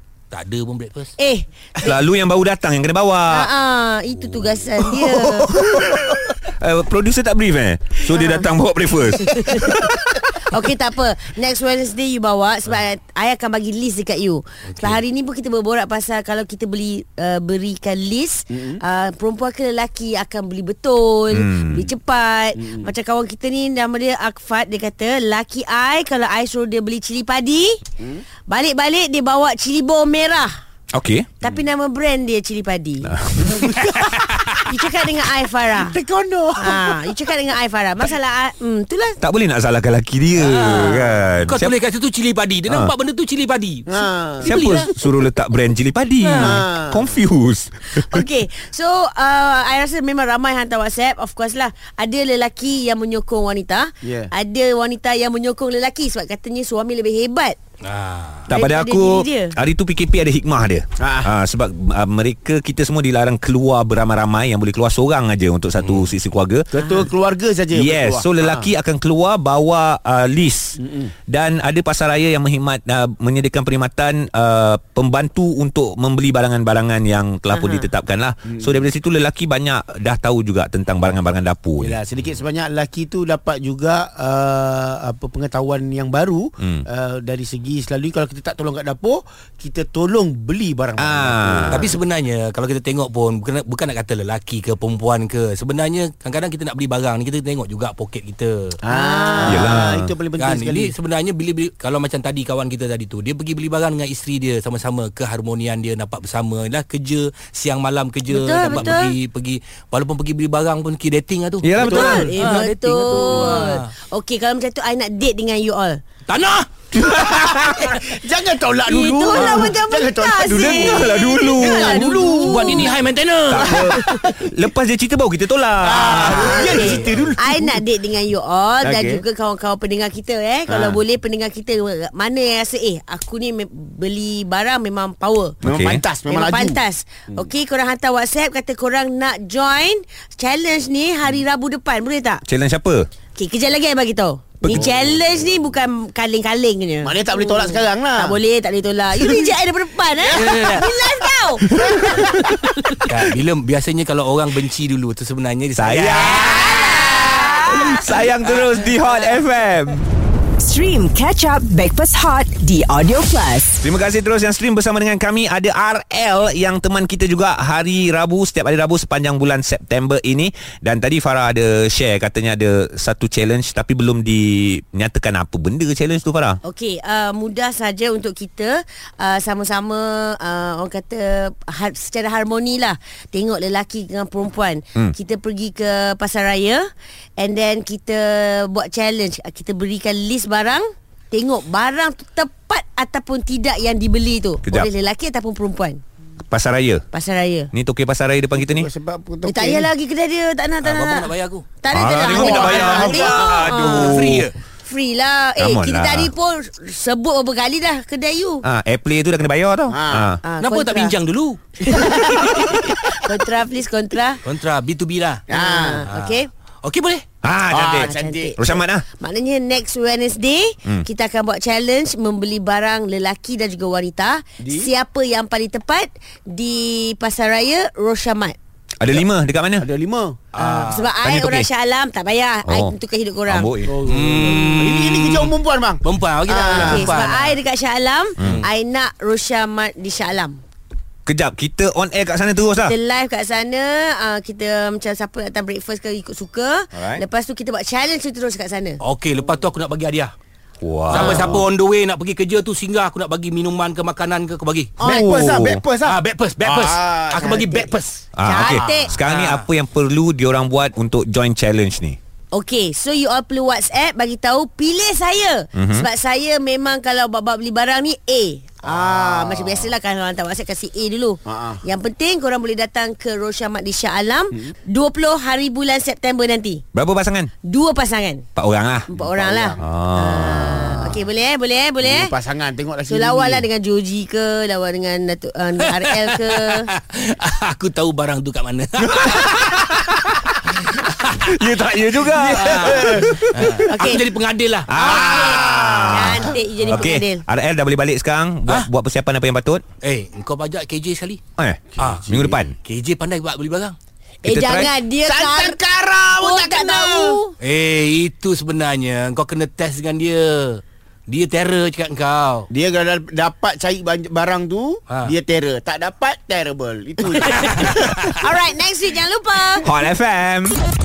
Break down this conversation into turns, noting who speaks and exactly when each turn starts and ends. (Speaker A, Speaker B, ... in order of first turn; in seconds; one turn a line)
Speaker A: 0.3-1.1
Speaker B: 1.2-2.0
Speaker C: 1.8-3.5
Speaker B: 3.3-5.6
Speaker C: 5.0-10.3
Speaker B: 8.1-8.4
Speaker B: 9.2-9.8
Speaker B: 10.5-30.5
Speaker A: 14.7-15.0
Speaker D: 18.5-18.8
Speaker C: 21.3-21.9
Speaker D: 22.6-22.9
Speaker D: 28.0-28.3
Speaker C: 30.9-31.3
Speaker B: 31.4-33.1
Speaker C: 33.0-33.7
Speaker C: 34.3-34.7
Speaker B: 34.6-36.0
Speaker D: 35.7-37.1
Speaker B: 36.6-39.2
Speaker C: 39.2-41.7
Speaker A: 40.4-43.9
Speaker C: 42.7-42.9
Speaker D: 43.9-44.6
Speaker A: 44.4-44.9
Speaker C: 44.4-48.2
Speaker A: 46.2-46.6
Speaker D: 46.4-47.2
Speaker B: 47.9-57.6
Speaker D: 54.0-54.3
Speaker A: 57.8-58.5
Speaker C: 58.5-66.7
Speaker B: 58.5-59.5
Speaker D: 61.0-61.3
Speaker A: 65.8-66.1
Speaker D: 66.7-68.7
Speaker B: 66.7-67.1
Speaker C: 67.7-70.7
Speaker D: 70.8-71.1
Speaker C: 71.3-82.0
Speaker B: 77.5-77.9
Speaker D: 78.5-78.8
Speaker D: 81.8-91.9
Speaker C: 91.0-91.8
Speaker A: 91.7-98.8
Speaker D: 98.8-100.9
Speaker B: 98.9-99.6
Speaker C: 99.4-100.1
Speaker A: 99.5-99.8
Speaker A: 100.4-113.9
Speaker B: 108.3-109.2
Speaker C: 111.6-112.3
Speaker B: 111.8-116.0
Speaker D: 111.8-112.3
Speaker D: 113.2-113.7
Speaker A: 116.3-116.7
Speaker C: 116.9-117.9
Speaker D: 117.1-122.9
Speaker B: 118.8-123.0
Speaker C: 120.4-122.1
Speaker A: 122.4-123.8
Speaker C: 123.5-127.0
Speaker B: 123.6-124.2
Speaker D: 124.1-124.3
Speaker D: 125.8-127.8
Speaker A: 126.3-127.1
Speaker B: 126.3-135.6
Speaker D: 128.8-129.2
Speaker C: 135.6-136.0
Speaker D: 135.7-137.4
Speaker B: 136.2-142.4
Speaker C: 142.4-143.1
Speaker B: 143.3-152.3
Speaker C: 144.6-144.9
Speaker D: 144.8-145.2
Speaker D: 147.0-148.3
Speaker A: 150.3-150.9
Speaker C: 151.7-152.6
Speaker A: 153.0-157.6
Speaker C: 155.8-160.0
Speaker B: 156.2-157.9
Speaker A: 158.2-158.9
Speaker E: 160.6-163.8
Speaker C: 163.8-176.6
Speaker B: 176.6-186.8
Speaker B: 187.4-196.0
Speaker C: 194.6-194.9
Speaker C: 196.5-197.0
Speaker B: 197.1-197.7
Speaker C: 197.7-198.9
Speaker D: 198.6-199.9
Speaker B: 199.4-201.3
Speaker A: 200.8-201.6
Speaker B: 201.8-204.2
Speaker C: 201.9-204.5
Speaker A: 202.3-204.5
Speaker D: 202.7-203.4
Speaker B: 204.8-208.6
Speaker C: 205.6-206.3
Speaker C: 208.6-210.4
Speaker D: 209.9-210.3
Speaker B: 210.4-211.1
Speaker A: 210.6-211.6
Speaker B: 211.8-214.4
Speaker A: 214.4-215.4
Speaker D: 215.5-216.1
Speaker B: 215.5-216.5
Speaker A: 216.0-217.2
Speaker C: 217.4-219.0
Speaker D: 217.7-218.5
Speaker B: 217.9-228.6
Speaker D: 224.6-224.9
Speaker C: 229.0-229.9
Speaker D: 229.8-230.4
Speaker A: 230.5-231.1
Speaker B: 230.6-233.7
Speaker C: 231.2-231.7
Speaker C: 232.6-232.9
Speaker C: 233.4-233.9
Speaker D: 233.8-237.2
Speaker A: 234.0-237.6
Speaker B: 236.6-240.6
Speaker C: 236.8-237.1
Speaker C: 238.4-238.6
Speaker C: 241.2-242.9
Speaker B: 242.8-249.0
Speaker C: 246.9-247.2
Speaker A: 249.0-250.3
Speaker C: 250.8-251.6
Speaker A: 251.1-255.0
Speaker B: 251.1-251.6
Speaker D: 255.0-257.9
Speaker C: 255.0-255.8
Speaker B: 255.0-255.4
Speaker A: 256.0-258.3
Speaker B: 257.4-257.9
Speaker C: 258.4-262.2
Speaker B: 258.4-259.1
Speaker D: 258.6-259.1
Speaker A: 259.1-259.7
Speaker B: 262.5-276.8
Speaker C: 265.7-266.1
Speaker D: 268.8-269.9
Speaker D: 271.5-271.8
Speaker C: 276.9-277.5
Speaker B: 277.6-278.4
Speaker C: 278.6-279.1
Speaker D: 279.1-279.8
Speaker B: 279.1-282.3
Speaker C: 279.8-281.1
Speaker D: 282.0-283.6
Speaker B: 283.1-286.9
Speaker A: 285.8-289.8
Speaker C: 289.2-290.0
Speaker A: 290.5-291.4
Speaker C: 291.4-293.7
Speaker A: 292.2-296.0
Speaker D: 292.6-293.8
Speaker B: 293.8-294.2
Speaker C: 294.9-299.8
Speaker B: 295.0-297.4
Speaker D: 295.1-296.6
Speaker A: 296.8-297.1
Speaker A: 300.0-301.4
Speaker C: 301.6-302.7
Speaker D: 301.9-302.6
Speaker A: 302.0-302.3
Speaker A: 302.8-303.9
Speaker B: 304.4-305.8
Speaker C: 304.4-304.9
Speaker D: 305.2-307.4
Speaker B: 306.3-307.5
Speaker A: 307.6-312.7
Speaker D: 312.7-318.3
Speaker A: 315.1-315.3
Speaker A: 317.5-318.2
Speaker B: 318.3-319.9
Speaker C: 319.8-320.8